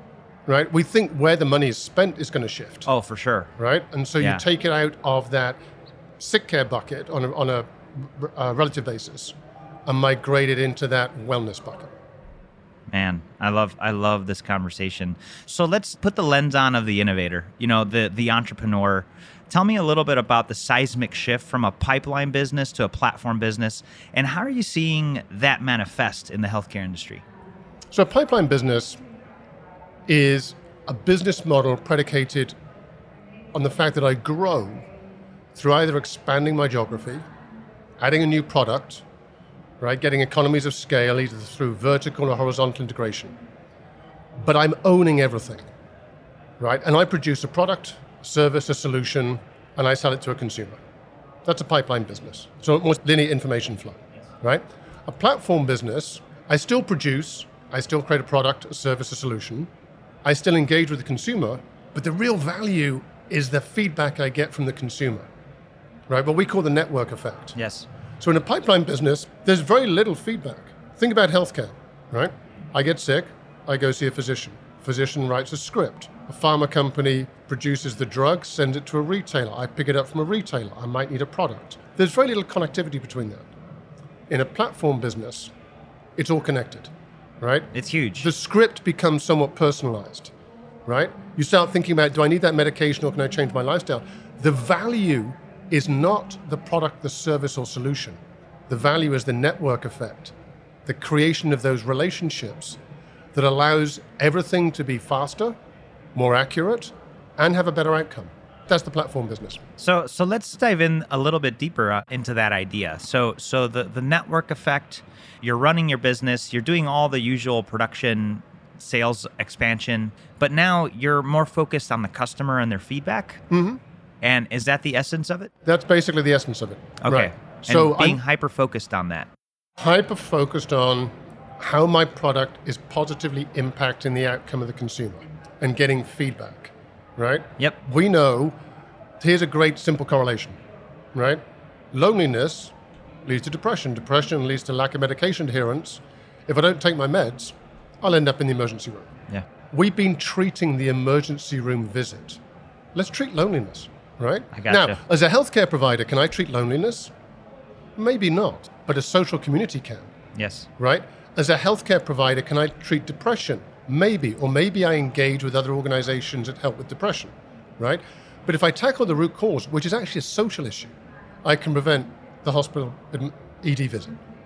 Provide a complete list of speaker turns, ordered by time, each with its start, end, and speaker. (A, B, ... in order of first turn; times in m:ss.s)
0:00.5-0:02.9 A
0:02.8-0:03.5 B
0:03.6-0:05.6 A
0:06.2-0:09.3 A
0:09.8-0:11.9 A
0:12.9-0:27.2 B
0:27.9-0:29.0 A
0:30.1-0:32.5 A
0:33.5-0:34.8 A
0:35.5-0:37.2 A
0:38.0-0:39.0 A
0:39.8-0:43.3 A
0:44.4-0:45.6 A
0:46.6-0:50.8 A
0:51.4-0:59.7 A
1:00.2-1:05.2 A
1:06.1-1:07.6 A
1:07.6-1:07.9 B
1:08.2-1:23.4 A
1:24.3-1:25.5 A
1:26.2-1:30.3 A
1:27.7-1:28.3 B
1:30.8-1:40.3 A
1:40.8-1:42.8 A
1:43.3-1:45.6 A
1:46.1-1:49.6 A
1:49.8-2:03.4 B
2:03.5-2:03.8 A
2:04.2-2:05.5 B
2:05.6-2:08.2 A
2:07.0-2:09.3 B
2:09.8-2:18.5 A
2:19.2-2:20.6 A
2:21.1-2:21.4 A
2:21.9-2:22.7 A
2:23.2-2:29.1 A
2:29.7-2:32.4 A
2:32.9-2:37.1 A
2:34.5-2:35.0 B
2:38.0-2:40.1 A
2:40.4-2:40.7 B
2:40.8-2:50.9 A
2:51.4-2:54.2 A